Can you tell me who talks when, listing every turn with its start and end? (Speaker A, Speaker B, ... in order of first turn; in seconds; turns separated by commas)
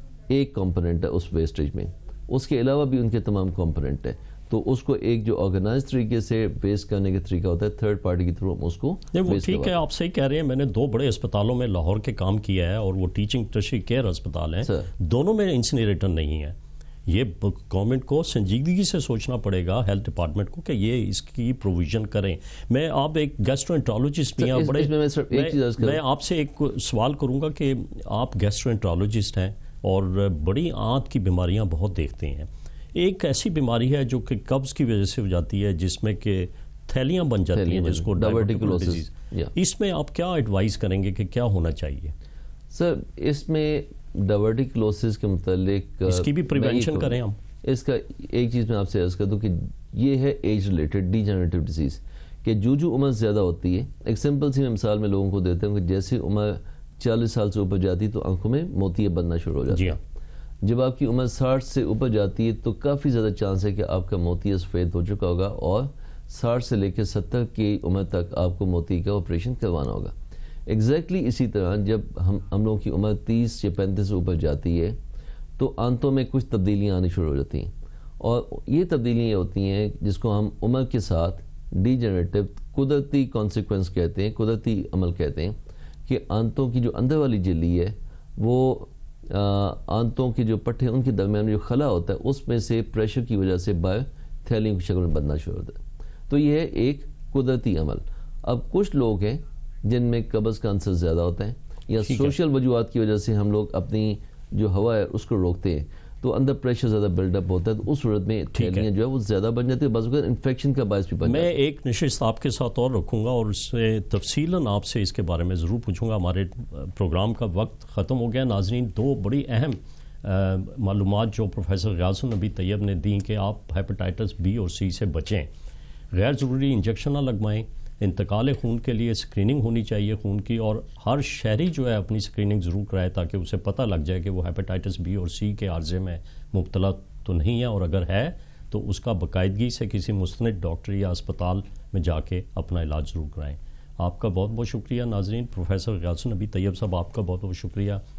Speaker A: 0.3-9.8, Speaker B: 9.1-42.1, Speaker A: 14.6-14.9, Speaker A: 24.4-26.0, Speaker A: 37.5-39.5, Speaker A: 42.7-60.0, Speaker B: 46.1-47.4, Speaker B: 59.7-60.0, Speaker A: 60.6-70.1, Speaker A: 70.7-75.0, Speaker A: 75.6-111.5, Speaker B: 102.0-102.4, Speaker B: 108.6-108.9, Speaker B: 111.2-125.5, Speaker B: 126.1-148.0